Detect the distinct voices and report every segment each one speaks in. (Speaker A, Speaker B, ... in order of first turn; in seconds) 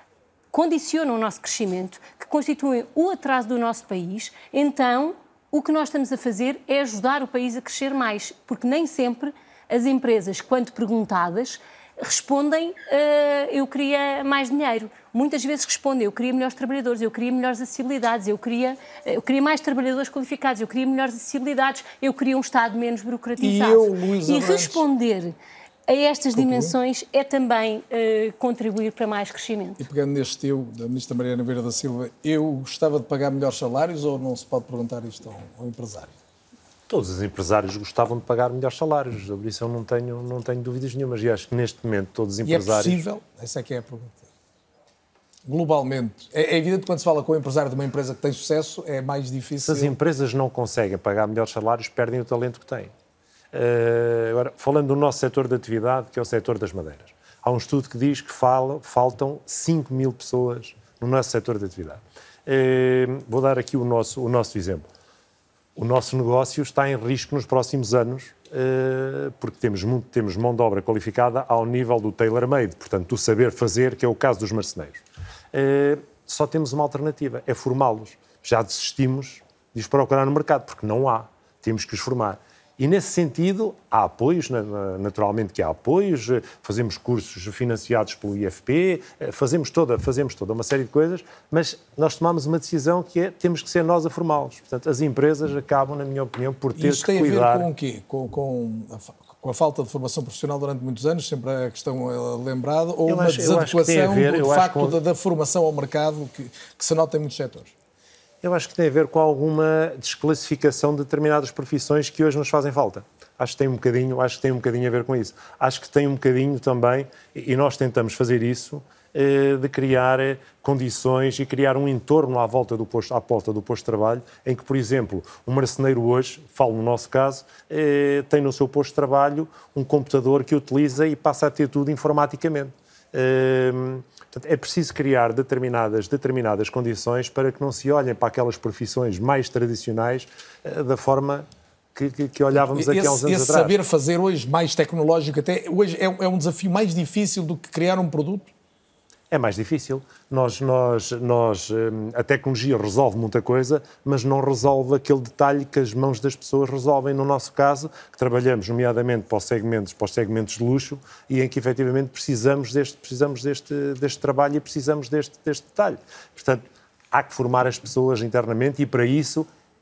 Speaker A: 0.5-25.4, 25.9-29.8
Speaker B: 23.4-24.8, 26.4-26.8, 29.8-36.1, 42.4-44.3, 45.5-50.0, 96.8-107.7, 142.5-148.5
Speaker C: 36.9-43.0, 49.6-52.9, 53.5-64.9, 65.8-75.0, 75.5-97.7, 103.1-105.0, 108.4-143.8, 149.3-169.5